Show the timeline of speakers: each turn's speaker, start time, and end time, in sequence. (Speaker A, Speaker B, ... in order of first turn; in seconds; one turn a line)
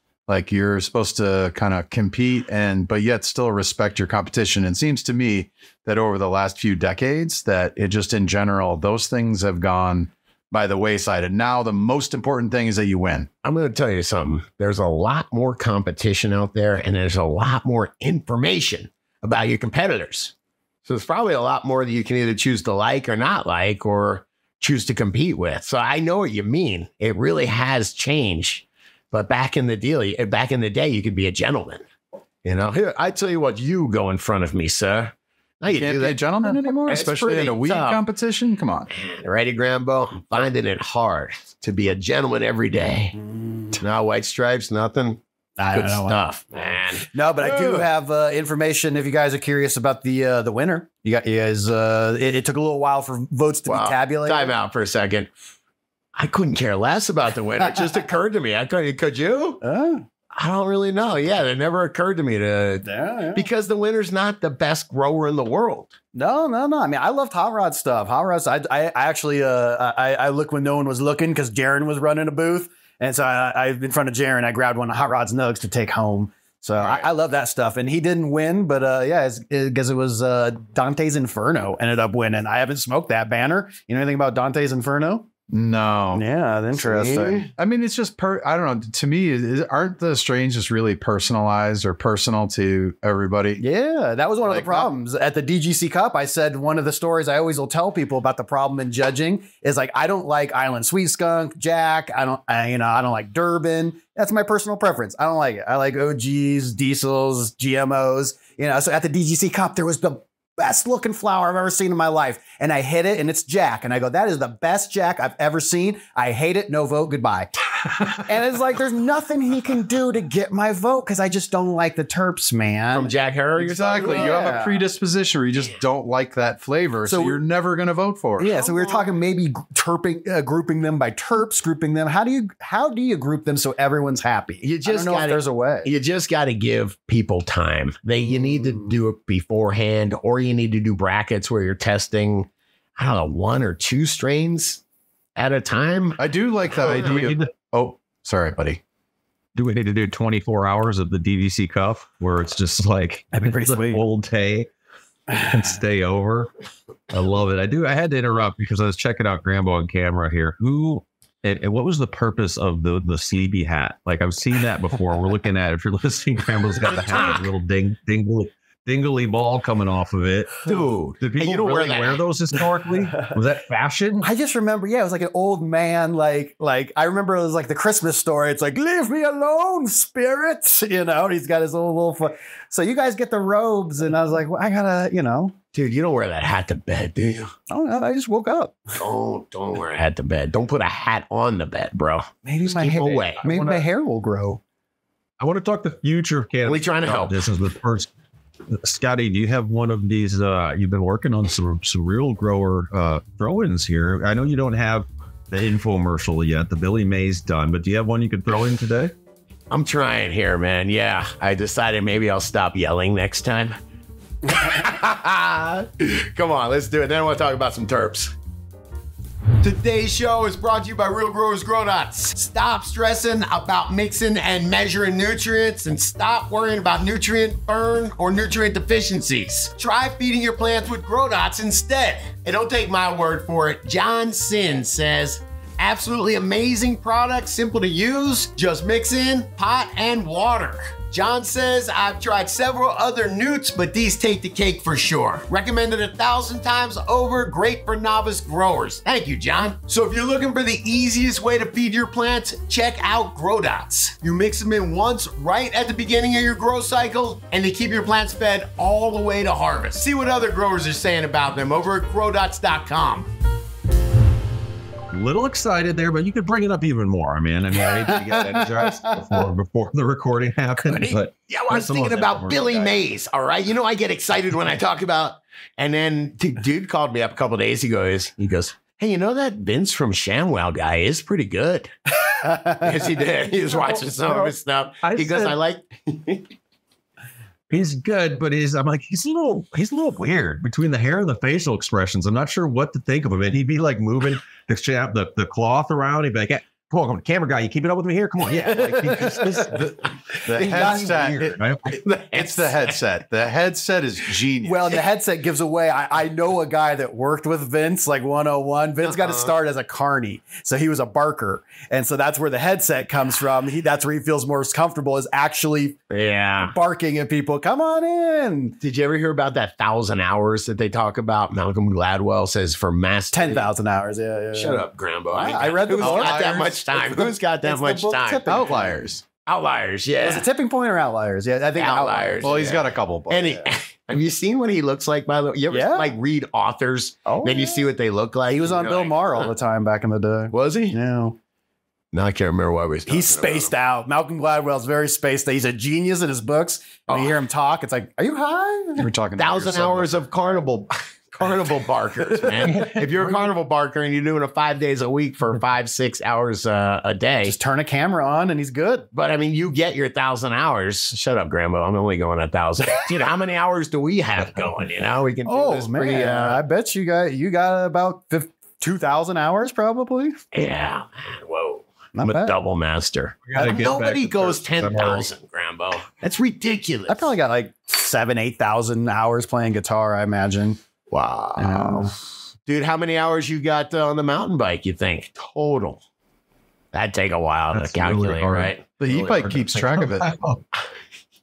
Speaker A: 0.3-13.3
Speaker B: 13.4-20.3
Speaker B: 20.9-31.8
Speaker B: 32.5-38.0
Speaker A: 35.7-38.9
Speaker B: 38.9-43.2
Speaker C: 43.2-43.8
Speaker B: 43.8-45.2
Speaker C: 45.6-46.2
Speaker B: 45.7-47.9
Speaker C: 47.1-54.5
Speaker B: 53.7-55.3
Speaker B: 56.1-59.6
Speaker C: 59.6-60.1
Speaker B: 60.3-65.9
Speaker C: 62.9-63.5
Speaker C: 66.2-85.3
Speaker A: 85.5-86.2
Speaker C: 86.1-87.5
Speaker B: 86.8-87.5
Speaker A: 87.6-93.6
Speaker C: 93.6-123.1
Speaker A: 94.4-94.9
Speaker B: 122.9-124.5
Speaker A: 123.6-128.5
Speaker C: 124.0-124.8
Speaker C: 127.1-127.4
Speaker B: 128.4-129.1
Speaker C: 128.4-135.9
Speaker B: 134.6-144.8
Speaker B: 145.4-146.2
Speaker A: 146.2-148.8
Speaker B: 146.7-147.2
Speaker D: 146.9-147.5
Speaker D: 149.6-154.7
Speaker C: 153.4-154.0
Speaker D: 155.3-156.5
Speaker D: 157.1-174.3
Speaker B: 166.9-167.4
Speaker B: 170.7-172.2
Speaker C: 174.2-185.6
Speaker B: 185.7-187.5
Speaker C: 187.7-188.9
Speaker B: 189.0-193.4
Speaker C: 192.5-194.6
Speaker D: 193.4-193.8
Speaker D: 195.4-198.1
Speaker B: 196.7-197.4
Speaker D: 198.7-209.1
Speaker B: 209.7-213.8
Speaker B: 214.5-218.3
Speaker B: 219.6-263.3
Speaker D: 265.1-273.0
Speaker C: 268.1-268.9
Speaker B: 270.9-286.5
Speaker D: 284.2-285.6
Speaker D: 287.7-299.9
Speaker B: 298.8-301.3
Speaker A: 299.7-301.6
Speaker D: 300.6-302.0
Speaker C: 300.6-301.0
Speaker B: 301.9-303.0
Speaker A: 302.3-304.9
Speaker C: 304.6-316.0
Speaker B: 309.1-309.5
Speaker B: 316.1-316.8
Speaker C: 316.6-318.8
Speaker B: 318.8-323.7
Speaker C: 323.3-324.8
Speaker B: 324.5-328.7
Speaker C: 325.3-329.0
Speaker A: 326.0-326.8
Speaker A: 328.5-329.2
Speaker B: 329.3-330.5
Speaker C: 330.2-332.7
Speaker B: 331.8-339.5
Speaker A: 332.4-333.6
Speaker C: 335.7-336.1
Speaker C: 337.3-337.9
Speaker C: 338.6-341.4
Speaker B: 340.5-341.0
Speaker B: 342.1-343.7
Speaker C: 343.1-349.1
Speaker B: 347.1-347.4
Speaker A: 349.0-350.2
Speaker B: 349.4-357.6
Speaker C: 357.5-359.1
Speaker B: 359.1-366.6
Speaker C: 365.5-370.4
Speaker B: 370.5-377.3
Speaker C: 372.2-372.6
Speaker D: 373.5-375.3
Speaker C: 377.1-380.8
Speaker B: 381.1-382.1
Speaker C: 381.6-382.1
Speaker B: 382.7-386.0
Speaker B: 386.9-389.5
Speaker D: 387.7-388.8
Speaker A: 389.0-390.3
Speaker D: 389.3-390.6